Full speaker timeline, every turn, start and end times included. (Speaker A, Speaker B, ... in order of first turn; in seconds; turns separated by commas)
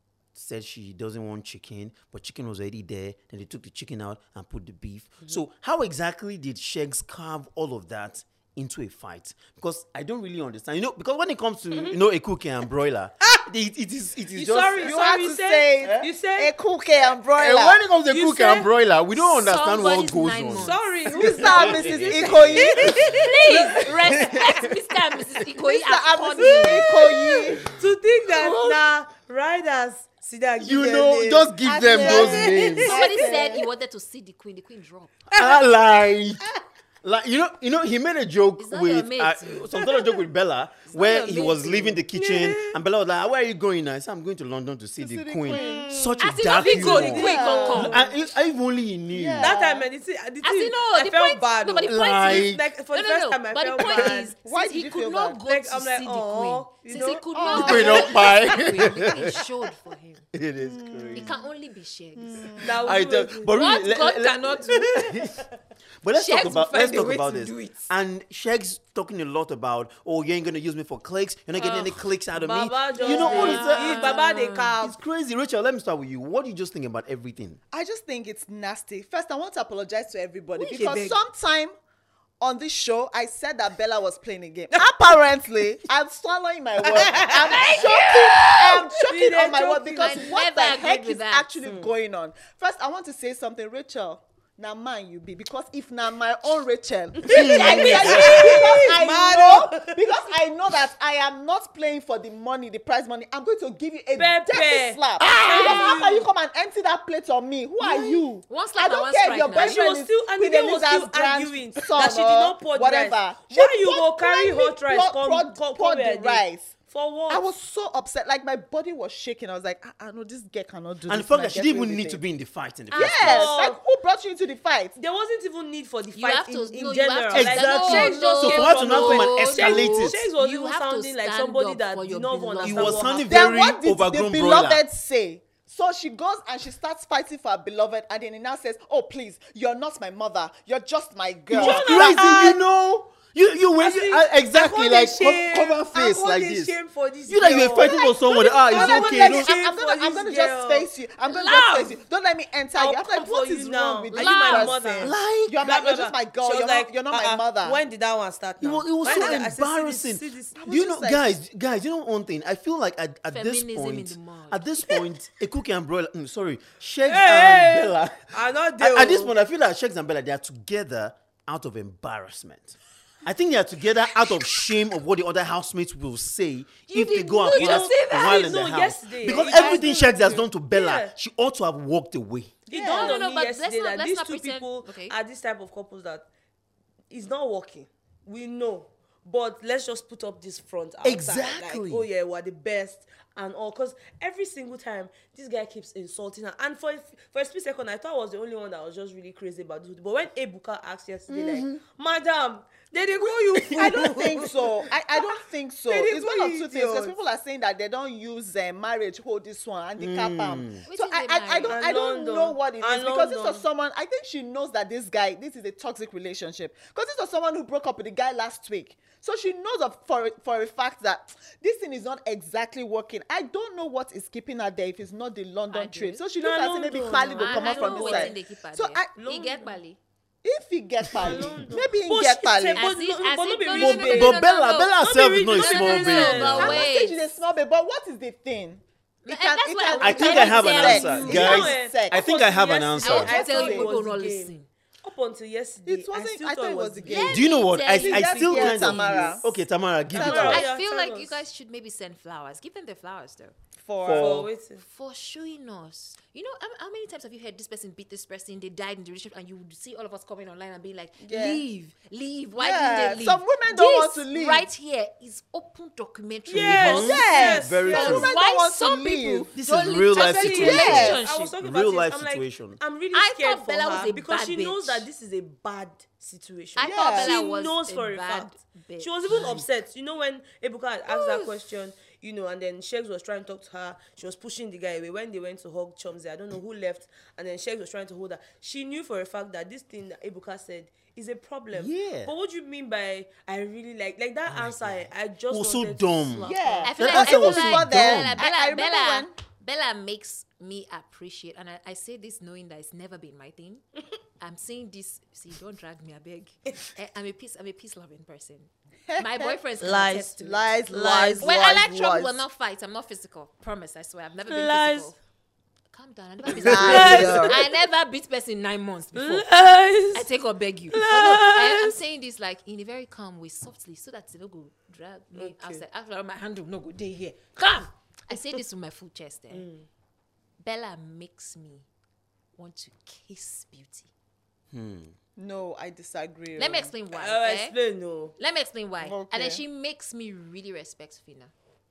Speaker A: 0.3-15.0, Speaker B: 11.7-12.0, Speaker B: 14.3-16.5, Speaker C: 14.8-17.8, Speaker A: 15.8-16.1, Speaker A: 17.3-24.7, Speaker B: 18.1-18.7, Speaker D: 19.1-20.9, Speaker B: 20.5-23.6, Speaker C: 21.1-23.7, Speaker D: 22.9-26.9, Speaker C: 25.6-27.7, Speaker B: 26.5-32.9, Speaker A: 30.6-32.9, Speaker C: 31.6-33.6, Speaker D: 32.9-35.1, Speaker A: 35.3-36.4, Speaker A: 37.0-49.5, Speaker D: 38.6-39.6, Speaker B: 39.8-40.2, Speaker D: 40.9-42.0, Speaker B: 42.1-42.8, Speaker C: 45.0-45.9, Speaker B: 45.5-48.0, Speaker D: 46.2-48.0, Speaker C: 46.9-48.1, Speaker C: 49.1-49.9, Speaker B: 49.4-54.3, Speaker D: 50.4-60.2, Speaker A: 51.8-52.6, Speaker C: 54.4-55.4, Speaker B: 55.4-58.1, Speaker C: 57.3-58.4, Speaker A: 57.5-59.4, Speaker A: 60.3-61.3, Speaker C: 60.6-61.4, Speaker D: 61.1-62.5, Speaker C: 62.1-62.9, Speaker B: 62.6-63.7, Speaker A: 62.8-65.4, Speaker D: 63.5-65.3, Speaker A: 66.0-74.2, Speaker D: 66.1-67.9, Speaker D: 71.6-72.0, Speaker B: 72.3-75.0, Speaker D: 73.0-74.7, Speaker A: 74.8-77.6, Speaker C: 77.7-81.7, Speaker D: 80.6-81.2, Speaker C: 82.4-116.7, Speaker B: 86.9-87.3, Speaker D: 87.2-89.1, Speaker B: 89.1-90.3, Speaker D: 89.9-91.6, Speaker B: 91.6-91.9, Speaker B: 97.2-100.3, Speaker D: 97.3-98.8, Speaker A: 97.3-98.6, Speaker B: 104.2-106.3, Speaker D: 105.2-106.0, Speaker D: 107.8-109.8, Speaker B: 109.5-117.5, Speaker C: 117.3-122.2, Speaker A: 121.1-123.5, Speaker C: 122.9-124.9, Speaker B: 123.0-123.8, Speaker B: 125.0-133.6, Speaker D: 126.2-133.2, Speaker A: 127.3-130.2, Speaker A: 132.6-134.8, Speaker C: 133.3-142.5, Speaker B: 141.5-142.6, Speaker A: 141.5-146.7, Speaker B: 143.8-150.9, Speaker A: 147.3-149.5, Speaker C: 147.4-157.8, Speaker D: 151.3-151.9, Speaker B: 152.7-160.6, Speaker D: 154.1-154.8, Speaker A: 155.0-155.6, Speaker A: 158.6-182.6, Speaker C: 160.6-161.3, Speaker D: 163.3-164.7, Speaker B: 167.1-169.3, Speaker D: 176.9-178.5, Speaker B: 177.5-181.1, Speaker C: 179.5-180.4, Speaker B: 182.7-186.2, Speaker C: 182.7-183.2, Speaker D: 182.8-185.1, Speaker B: 187.1-207.2, Speaker A: 191.0-192.1, Speaker C: 201.3-201.6, Speaker A: 203.6-204.0, Speaker C: 203.7-229.1, Speaker A: 210.0-210.8, Speaker D: 210.8-211.8, Speaker B: 211.7-213.6, Speaker D: 225.7-226.2, Speaker B: 226.4-228.3, Speaker D: 227.1-230.0, Speaker B: 229.2-229.8, Speaker C: 230.4-232.8, Speaker B: 231.1-234.4, Speaker A: 231.2-231.5, Speaker D: 232.7-237.2, Speaker A: 233.7-236.8, Speaker B: 235.0-236.8, Speaker C: 236.6-242.3, Speaker D: 239.2-241.7, Speaker A: 240.0-243.3, Speaker B: 241.1-247.3, Speaker D: 243.0-244.7, Speaker C: 243.2-243.9, Speaker C: 245.8-249.5, Speaker D: 247.0-249.4, Speaker A: 247.2-250.6, Speaker B: 250.1-251.4, Speaker C: 250.2-250.6, Speaker D: 250.2-253.5, Speaker C: 253.8-254.5, Speaker A: 254.0-254.5, Speaker B: 254.1-254.8, Speaker D: 254.8-271.6, Speaker C: 261.2-261.6, Speaker C: 262.6-264.7, Speaker B: 266.5-268.2, Speaker A: 266.6-268.3, Speaker C: 266.9-269.5, Speaker A: 269.6-272.8, Speaker B: 270.1-296.9, Speaker C: 270.6-271.2, Speaker D: 273.1-275.1, Speaker D: 276.8-279.7, Speaker C: 276.8-277.3, Speaker D: 281.1-281.5, Speaker A: 291.7-292.3, Speaker A: 294.5-298.4, Speaker C: 296.4-299.3, Speaker D: 296.8-303.8, Speaker D: 304.4-310.7, Speaker C: 309.1-309.6, Speaker B: 309.8-311.5, Speaker C: 310.4-312.4, Speaker D: 311.4-315.2, Speaker B: 314.5-315.1, Speaker D: 315.9-319.5, Speaker B: 316.5-317.6, Speaker C: 316.6-317.6, Speaker B: 319.1-320.2, Speaker D: 320.1-329.6, Speaker B: 320.9-321.9, Speaker B: 325.3-325.8, Speaker B: 329.5-329.9, Speaker D: 330.6-331.9, Speaker D: 332.6-334.1, Speaker A: 334.7-335.1, Speaker C: 335.4-336.9, Speaker D: 336.6-337.7, Speaker B: 337.1-338.3, Speaker D: 338.4-341.5, Speaker C: 339.0-339.6